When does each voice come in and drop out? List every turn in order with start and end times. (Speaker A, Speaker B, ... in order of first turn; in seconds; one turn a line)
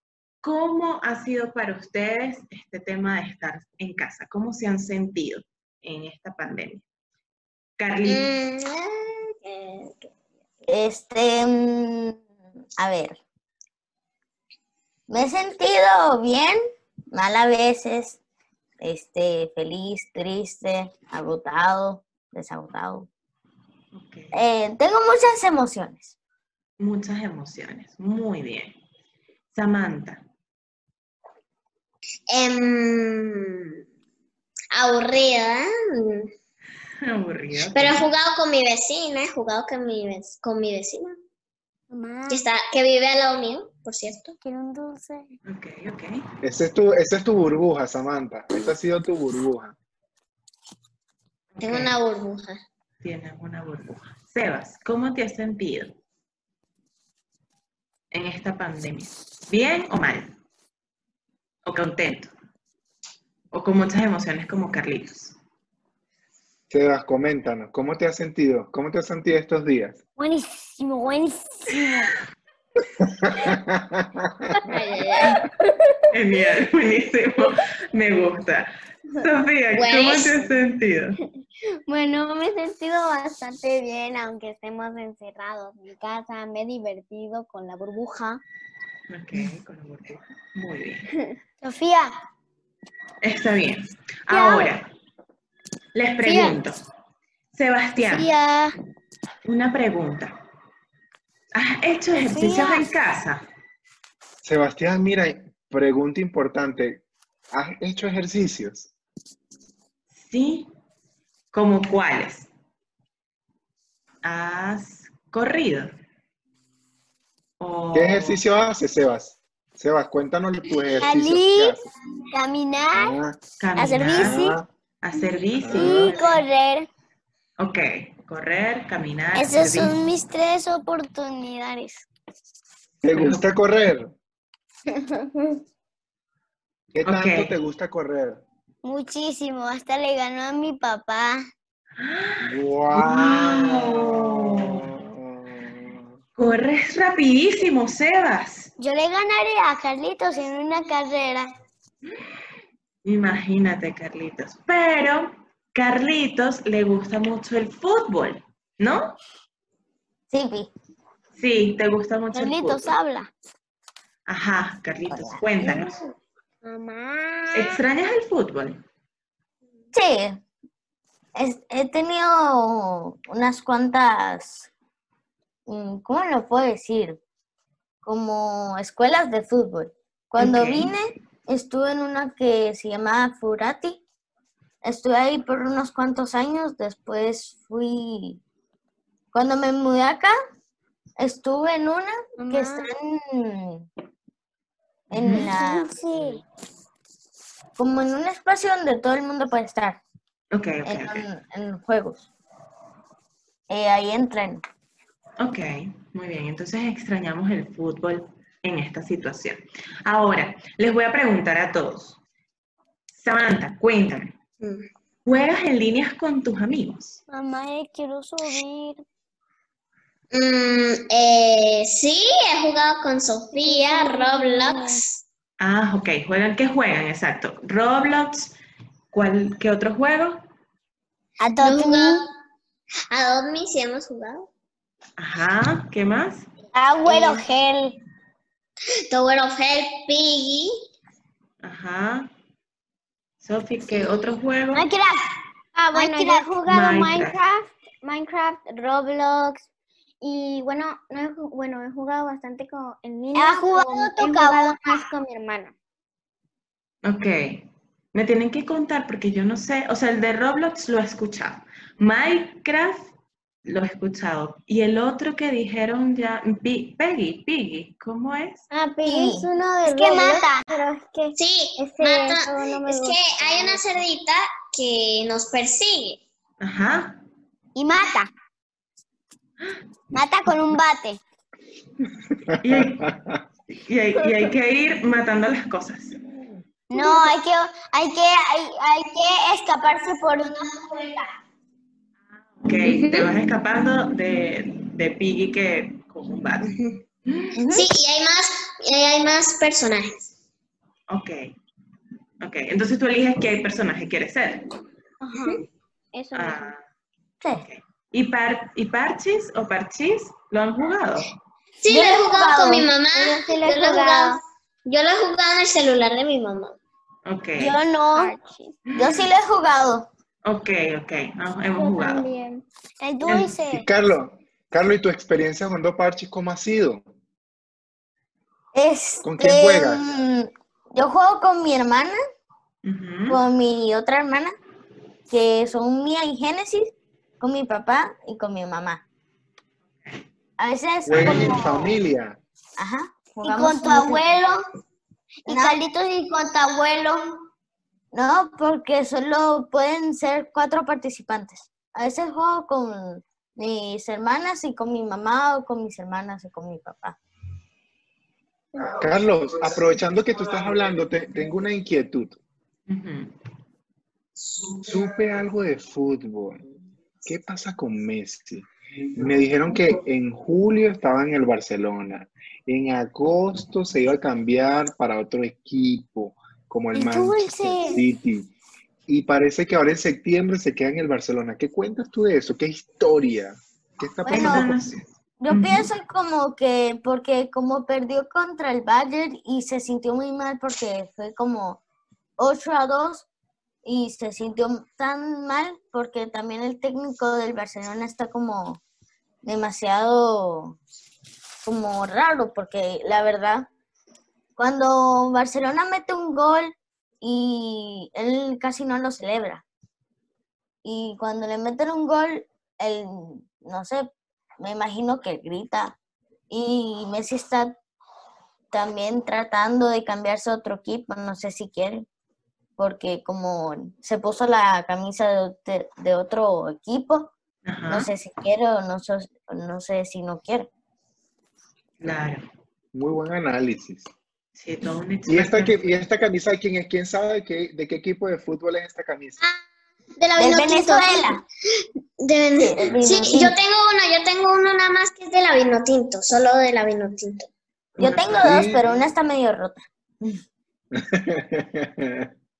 Speaker A: 0.4-6.8
Speaker A: 7.8-8.3
Speaker B: 8.1-10.1
Speaker C: 10.7-12.2
Speaker C: 12.8-13.2
Speaker C: 15.1-16.6
Speaker C: 17.1-18.2
Speaker C: 18.8-23.1
Speaker A: 23.9-24.4
Speaker C: 24.3-26.1
Speaker A: 26.8-28.8
Speaker A: 29.5-30.2
Speaker B: 32.3-33.7
Speaker B: 34.7-36.3
Speaker A: 37.0-38.0
Speaker B: 37.7-41.1
Speaker D: 41.9-42.4
Speaker B: 42.3-44.3
Speaker D: 44.4-45.3
Speaker A: 45.5-46.3
Speaker E: 46.4-49.7
Speaker A: 51.5-52.0
Speaker B: 51.6-52.6
Speaker A: 53.0-56.0
Speaker A: 58.1-60.3
Speaker A: 61.6-62.3
Speaker A: 63.5-65.3
Speaker E: 66.7-70.0
Speaker D: 70.2-72.1
Speaker E: 73.2-74.7
Speaker B: 74.7-75.4
Speaker A: 76.1-81.2
Speaker B: 79.7-80.4
Speaker F: 81.9-88.4
Speaker A: 89.1-91.1
Speaker D: 91.6-92.1
Speaker A: 93.2-94.9
Speaker A: 95.9-96.8
Speaker D: 96.2-96.5
Speaker A: 97.5-98.3
Speaker D: 98.0-98.7
Speaker A: 99.4-100.4
Speaker A: 101.5-103.4
Speaker D: 102.1-102.9
Speaker E: 104.4-108.9
Speaker A: 110.1-110.7
Speaker A: 111.5-112.5
Speaker A: 114.2-115.9
Speaker A: 117.6-118.4
Speaker E: 117.9-121.8
Speaker D: 121.0-121.8
Speaker D: 122.3-123.2
Speaker E: 122.9-123.4
Speaker A: 123.6-124.4
Speaker D: 123.8-124.6
Speaker E: 124.2-124.7
Speaker A: 125.0-126.4
Speaker E: 125.6-126.2
Speaker D: 125.7-126.9
Speaker A: 127.6-129.9
Speaker D: 129.3-132.1
Speaker E: 133.0-134.1
Speaker A: 133.1-133.4
Speaker F: 135.0-135.6
Speaker E: 136.9-138.4
Speaker A: 137.0-137.5
Speaker D: 138.8-141.4
Speaker A: 142.0-144.8
Speaker E: 142.4-146.0
Speaker A: 146.4-148.7
Speaker D: 148.8-151.5
Speaker A: 153.0-159.2
Speaker C: 160.3-160.7
Speaker A: 161.3-162.9
Speaker D: 162.3-163.3
Speaker A: 164.3-166.0
Speaker D: 165.6-165.9
Speaker D: 166.7-167.6
Speaker A: 167.5-168.8
Speaker C: 169.9-170.4
Speaker C: 171.3-174.7
Speaker C: 175.7-177.2
Speaker C: 178.0-184.0
Speaker A: 180.4-180.9
Speaker C: 184.8-188.4
Speaker C: 189.3-190.3
Speaker C: 191.2-193.9
Speaker D: 192.4-192.8
Speaker C: 195.1-196.2
Speaker A: 195.1-195.5
Speaker D: 195.3-196.4
Speaker C: 197.8-200.0
Speaker A: 200.5-201.2
Speaker C: 200.8-202.3
Speaker C: 203.7-204.6
Speaker A: 205.4-212.2
Speaker A: 213.1-214.3
Speaker B: 214.6-214.9
Speaker A: 215.2-217.2
Speaker D: 217.3-219.0
Speaker B: 220.3-225.2
Speaker F: 223.6-224.8
Speaker D: 223.7-224.6
Speaker A: 225.6-228.5
Speaker A: 229.1-230.4
Speaker D: 231.4-232.2
Speaker B: 231.6-232.3
Speaker B: 233.1-234.5
Speaker A: 235.2-236.5
Speaker D: 236.7-237.9
Speaker B: 237.1-237.4
Speaker B: 239.1-240.7
Speaker A: 241.6-242.3
Speaker A: 243.4-244.8
Speaker D: 244.7-245.2
Speaker F: 245.7-249.6
Speaker D: 245.9-246.6
Speaker A: 246.7-247.4
Speaker F: 250.2-255.7
Speaker D: 253.3-255.0
Speaker A: 257.0-263.1
Speaker A: 263.6-268.6
Speaker F: 268.7-273.8
Speaker C: 269.0-269.5
Speaker D: 269.8-270.5
Speaker B: 271.4-276.2
Speaker A: 276.6-277.2
Speaker D: 277.8-278.3
Speaker D: 280.1-281.2
Speaker E: 282.5-283.4
Speaker A: 282.6-283.1
Speaker A: 283.7-286.2
Speaker D: 286.9-291.3
Speaker A: 292.3-296.7
Speaker B: 296.6-297.0
Speaker A: 297.2-297.5
Speaker C: 297.5-297.9
Speaker B: 297.7-300.3
Speaker A: 301.1-301.5
Speaker A: 302.4-304.7
Speaker F: 305.2-305.6
Speaker F: 306.1-306.7
Speaker A: 306.3-306.8
Speaker A: 307.5-311.3
Speaker B: 311.8-316.8
Speaker C: 311.9-312.9
Speaker F: 313.1-314.4
Speaker A: 317.2-317.8
Speaker D: 317.6-318.4
Speaker F: 318.1-318.6
Speaker A: 318.9-319.3
Speaker C: 318.9-320.1
Speaker A: 320.4-322.2
Speaker F: 321.7-322.6
Speaker D: 323.0-323.9
Speaker A: 323.2-323.5
Speaker E: 323.7-327.0
Speaker C: 328.7-332.2
Speaker E: 329.2-330.0
Speaker A: 332.8-333.4
Speaker C: 333.3-334.5
Speaker C: 335.3-339.0
Speaker C: 340.6-341.6
Speaker E: 341.1-342.4
Speaker A: 341.1-341.5
Speaker D: 341.3-341.9
Speaker C: 342.8-344.2
Speaker D: 343.4-344.6
Speaker D: 345.4-347.4
Speaker C: 345.5-345.8
Speaker C: 348.1-357.2
Speaker E: 358.8-362.4
Speaker A: 362.9-363.3
Speaker E: 364.8-366.6
Speaker E: 367.2-378.5
Speaker D: 376.9-378.0
Speaker E: 379.1-384.9
Speaker C: 384.2-384.7
Speaker A: 384.2-385.9
Speaker C: 385.4-391.8
Speaker C: 392.4-393.2
Speaker C: 393.8-398.8
Speaker C: 399.4-400.8
Speaker C: 401.6-403.7
Speaker C: 404.6-409.6
Speaker C: 410.8-415.9
Speaker C: 416.5-417.8
Speaker C: 418.7-422.1
Speaker C: 422.8-427.3
Speaker A: 427.6-428.1
Speaker C: 427.9-430.7
Speaker A: 432.0-432.4
Speaker E: 432.9-434.1
Speaker A: 434.5-435.9
Speaker E: 435.3-439.4
Speaker B: 440.2-447.5
Speaker C: 440.4-441.4
Speaker C: 442.6-443.6
Speaker A: 448.0-448.9
Speaker C: 448.0-450.4
Speaker E: 448.3-448.9
Speaker E: 450.9-452.3